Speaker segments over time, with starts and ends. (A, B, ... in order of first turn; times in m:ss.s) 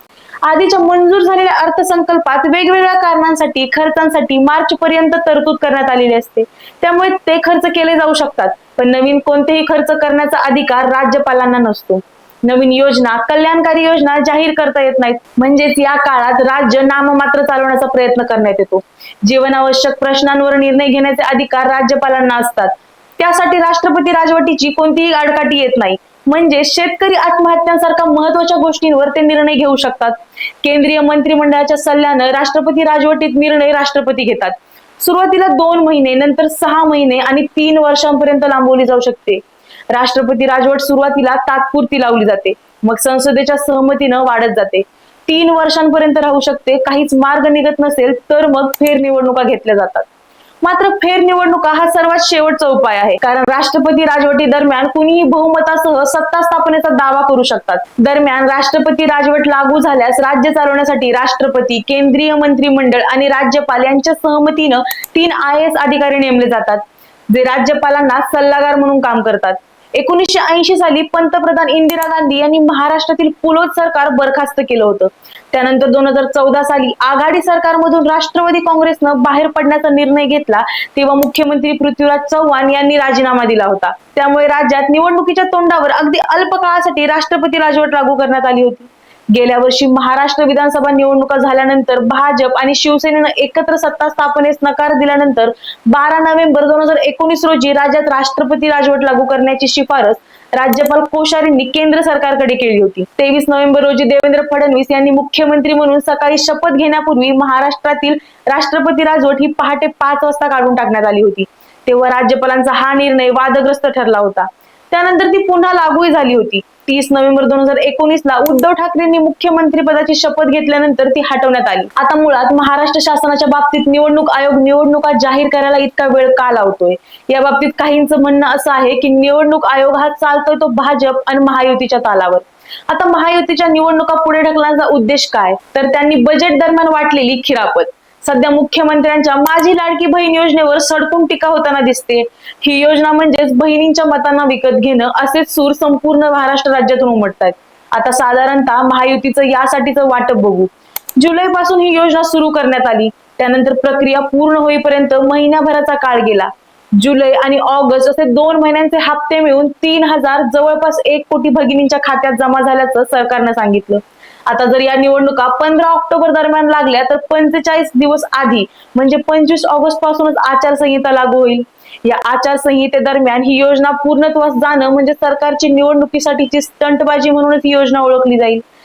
0:00.4-0:50.1 A
0:50.6-2:58.6 A